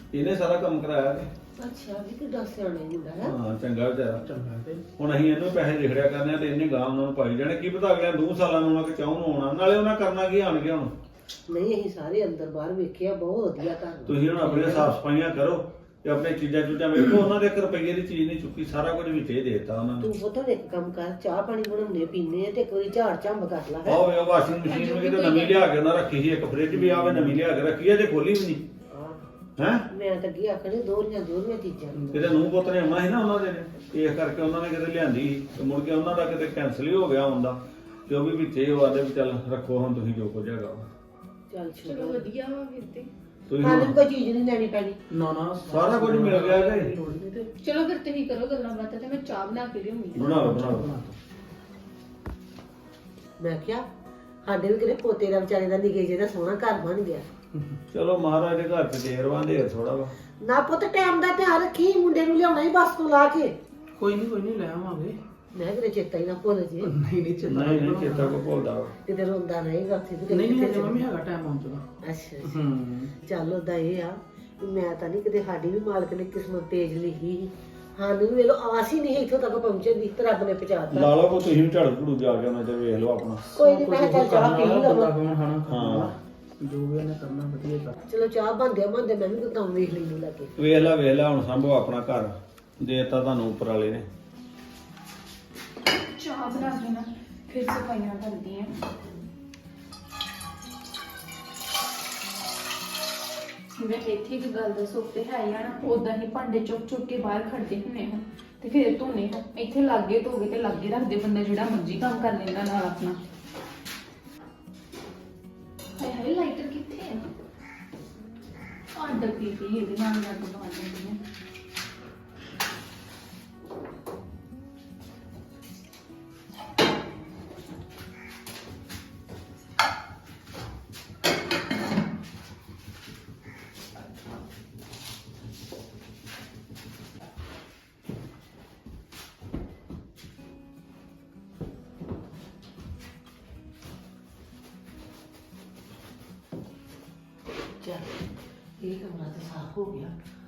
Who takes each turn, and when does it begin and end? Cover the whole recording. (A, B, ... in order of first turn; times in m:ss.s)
0:00.1-0:01.3 A
0:01.6-0:03.4 B
0:03.2-0:04.2 A
0:04.2-0:04.8 C
0:05.0-0:10.9 A
0:11.5-0:14.2 B
0:14.1-0:20.1 A
0:14.4-0:14.9 C
0:20.0-0:24.0 B
0:23.9-0:28.6 A
0:24.6-0:25.7 D
0:26.7-0:27.4 C
0:28.9-0:29.2 B
0:29.6-0:29.8 A
0:29.9-0:32.3 B
0:31.9-0:32.3 C
0:32.1-0:40.9 A
0:41.5-0:42.2 B
0:41.8-0:43.1 D
0:43.5-0:44.0 A
0:43.6-0:45.0 B
0:45.1-0:46.6 C
0:45.7-0:47.5 B
0:45.7-0:46.9 A
0:47.6-0:50.3 D
0:50.1-0:50.9 A
0:50.2-0:51.2 C
0:53.4-0:53.8 B
0:54.4-0:57.2 B
0:57.9-1:00.1 A
1:00.4-1:03.5 B
1:04.0-1:05.2 C
1:05.5-1:06.9 B
1:06.8-1:08.4 C
1:07.4-1:08.9 A
1:09.0-1:11.1 B
1:10.3-1:11.8 C
1:12.0-1:12.6 B
1:12.4-1:13.1 C
1:13.2-1:21.1 B
1:20.9-1:23.5 A
1:23.6-1:25.1 B
1:23.6-1:28.0 C
1:25.7-1:26.1 A
1:28.1-1:30.5 B
1:30.6-1:34.1 A
1:36.1-1:38.7 D
1:43.8-1:53.2 D
1:56.0-1:57.3 D
1:59.0-2:01.2 D
2:27.8-2:28.1 B
2:28.8-2:30.1 B